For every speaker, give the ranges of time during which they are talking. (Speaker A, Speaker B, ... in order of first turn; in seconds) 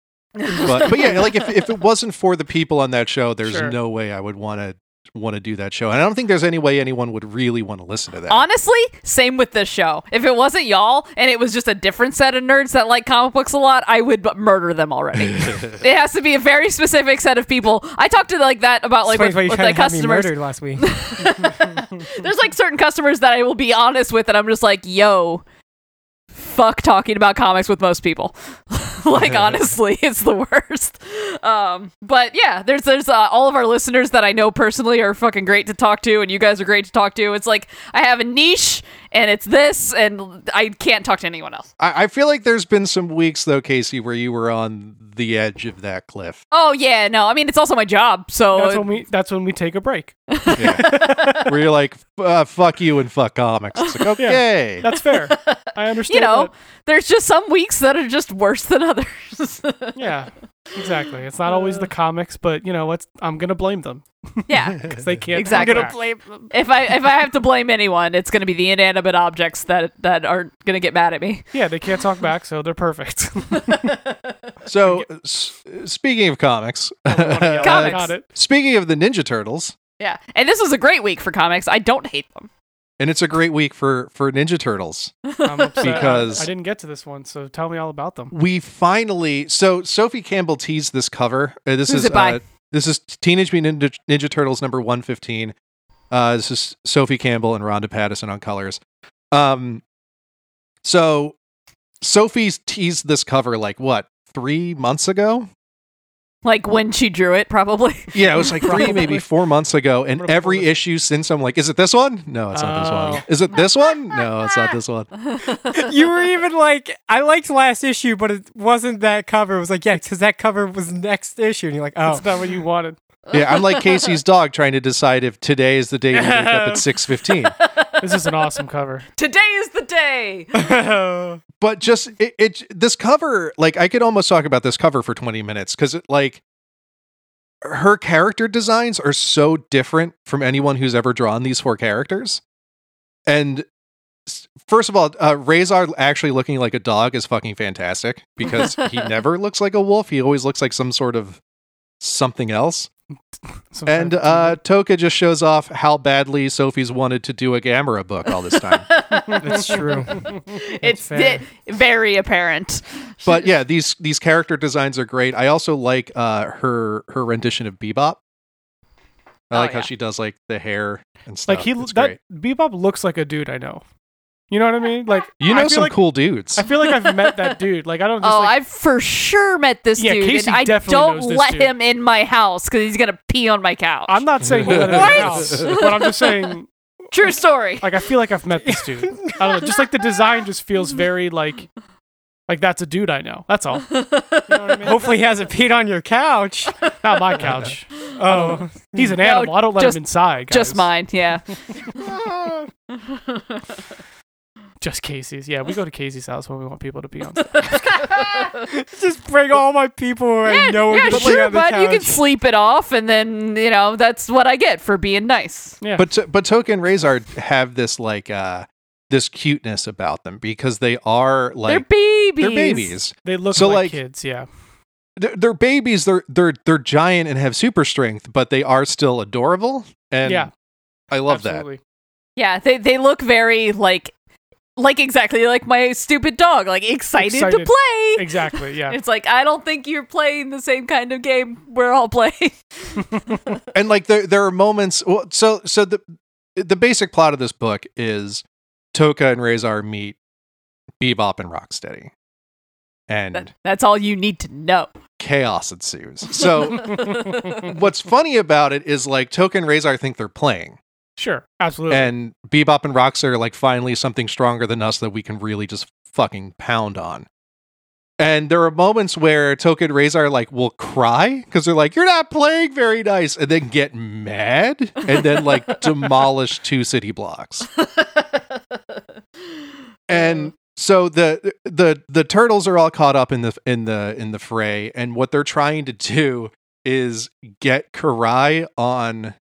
Speaker A: 0.4-1.5, 8.3-25.4, 26.3-41.7, 46.5-48.9, 50.3-51.5, 53.8-54.1, 54.9-60.1, 61.5-61.8, 64.5-71.5, 73.7-74.1, 77.6-78.1, 80.0-82.5, 85.2-86.5, 91.9-92.4, 106.4-109.2, 115.2-115.9, 123.3-124.2, 127.4-128.3, 129.2-130.6, 158.9-163.4, 169.5-169.9, 176.7-177.3, 178.2-186.5, 187.1-187.9, 193.9-195.0, 196.9-197.4, 199.2-202.2, 202.9-203.6, 207.5-208.5, 210.4-215.8, 221.7-222.9, 232.3-234.1, 234.8-243.3, 253.3-254.9, 256.4-257.6, 277.8-278.6, 280.1-280.5
Speaker B: 0.5-8.4, 15.4-15.7, 41.8-46.4, 50.5-54.8, 74.6-79.7, 83.0-85.1, 85.8-86.5, 88.3-95.5, 96.1-98.8, 99.3-99.8, 100.8-101.3, 102.0-105.5, 108.1-115.1, 123.3-127.5, 131.6-136.4, 137.6-142.4, 143.3-143.6, 144.2-151.4, 152.0-152.9, 153.8-158.9, 163.2-168.2, 169.5-172.2, 175.4-176.7, 184.4-185.7, 211.1-211.4, 215.9-221.8, 222.4-224.0, 225.2-230.5, 231.1-231.6, 243.7-246.0, 246.6-248.4, 248.9-250.2, 251.0-252.1, 253.1-253.5, 255.2-260.8, 261.9-267.2, 268.2-277.7, 280.1-289.3
Speaker C: 3.4-3.8, 48.5-51.5, 54.2-56.5, 59.9-66.0, 71.5-73.9, 77.1-78.2, 85.4-88.3, 108.7-109.2, 110.1-110.7, 112.5-113.3, 122.1-123.0, 126.1-126.8, 128.0-129.1, 153.7-154.6, 159.5-160.3, 171.5-173.8, 174.5-176.0, 176.5-178.5, 180.0-181.7, 184.1-186.7, 187.8-191.7, 192.5-195.2, 197.0-200.9, 204.8-208.0, 215.8-216.1, 223.2-224.5, 230.2-230.5, 231.3-231.8, 237.2-239.0, 261.2-262.1
Speaker D: 19.1-21.0, 65.5-66.5, 115.7-122.3, 130.5-131.4, 159.4-161.4, 188.6-189.8, 194.8-196.7, 198.1-199.2, 208.0-212.2